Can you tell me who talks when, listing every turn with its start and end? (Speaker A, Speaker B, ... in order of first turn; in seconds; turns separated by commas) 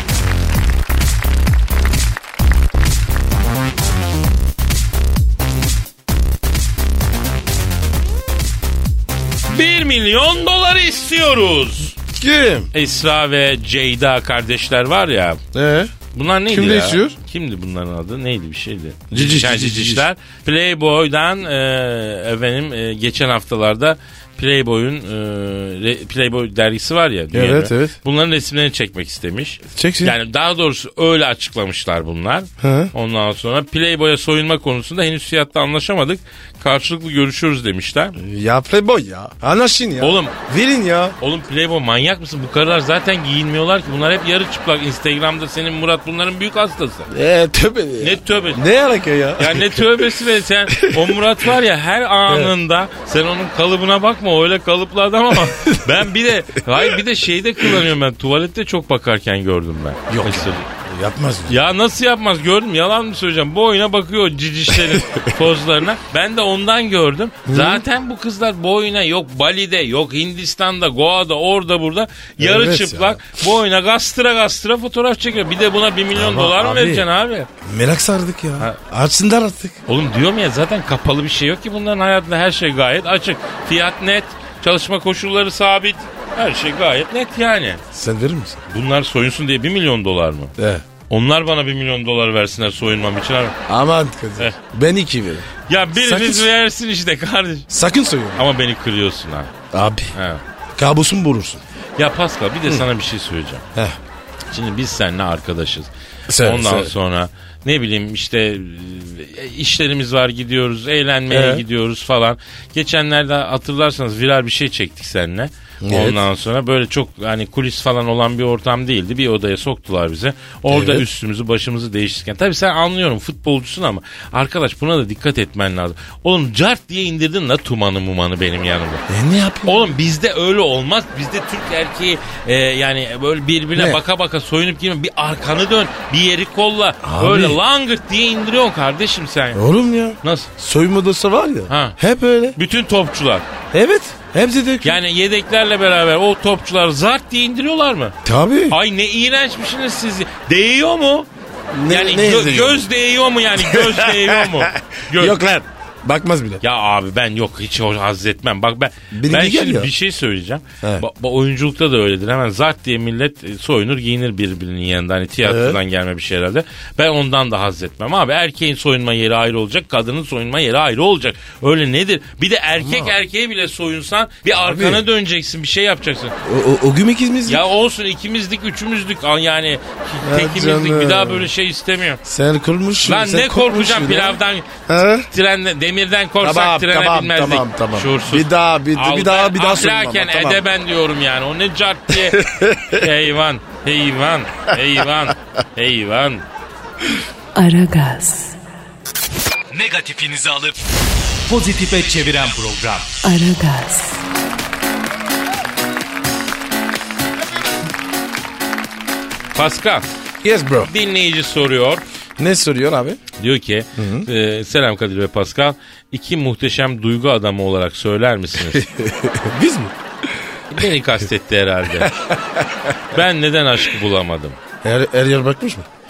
Speaker A: 9.5-12.0, Speaker B: 12.1-12.7, Speaker A: 12.7-15.4, Speaker B: 15.5-15.9, Speaker A: 16.1-38.2, Speaker B: 16.5-17.2, Speaker B: 19.1-20.1, Speaker B: 27.3-28.0, Speaker B: 29.8-30.2, Speaker B: 32.6-32.9, Speaker B: 38.2-41.2, Speaker A: 40.0-40.4, Speaker A: 41.2-47.1, Speaker B: 47.1-50.1, Speaker A: 48.0-48.6, Speaker A: 49.4-60.7, Speaker B: 50.7-51.2, Speaker B: 52.3-52.5, Speaker B: 55.3-56.0, Speaker B: 56.7-57.0, Speaker B: 60.1-61.6, Speaker A: 61.5-77.5, Speaker B: 64.7-65.3, Speaker B: 67.5-67.8, Speaker B: 72.4-73.4, Speaker B: 76.1-77.1, Speaker B: 77.6-79.8, Speaker A: 79.9-87.8, Speaker B: 87.9-88.6, Speaker A: 88.7-90.5, Speaker B: 90.6-90.8, Speaker A: 91.1-93.6, Speaker B: 93.7-96.5, Speaker A: 95.7-97.7, Speaker B: 97.7-98.5, Speaker A: 98.3-99.5, Speaker B: 99.7-100.1, Speaker A: 100.1-100.4, Speaker B: 100.8-101.6, Speaker A: 102.0-103.6, Speaker A: 104.5-129.0, Speaker B: 106.3-106.9, Speaker B: 111.3-111.6, Speaker B: 115.8-116.2, Speaker B: 120.7-121.1, Speaker B: 129.1-129.8, Speaker A: 129.7-139.6, Speaker B: 133.8-134.0, Speaker B: 137.0-137.6, Speaker B: 139.5-142.6, Speaker A: 140.2-140.5, Speaker A: 141.7-142.0, Speaker A: 142.6-143.4, Speaker B: 143.7-145.0, Speaker A: 144.8-148.2, Speaker B: 148.2-148.8, Speaker A: 148.7-151.3, Speaker B: 151.7-152.9, Speaker A: 151.9-155.4, Speaker B: 153.6-156.6, Speaker A: 156.6-176.3, Speaker B: 159.1-159.9, Speaker B: 165.4-165.8, Speaker B: 172.8-173.2, Speaker B: 174.6-175.0, Speaker B: 176.4-177.6, Speaker A: 177.5-182.2, Speaker B: 180.2-181.5, Speaker B: 182.2-185.3, Speaker A: 183.0-184.7, Speaker A: 185.3-196.4, Speaker B: 186.4-190.6, Speaker B: 192.1-193.0, Speaker C: 197.6-198.6, Speaker D: 199.7-200.7, Speaker D: 201.5-203.1, Speaker C: 203.2-204.2, Speaker A: 209.5-210.1, Speaker B: 210.4-210.9, Speaker A: 210.8-212.0, Speaker B: 212.4-213.2, Speaker A: 213.4-218.9, Speaker B: 214.0-214.3, Speaker B: 218.6-220.4, Speaker A: 220.7-222.2, Speaker B: 222.0-223.0, Speaker A: 223.1-224.6, Speaker B: 224.8-225.9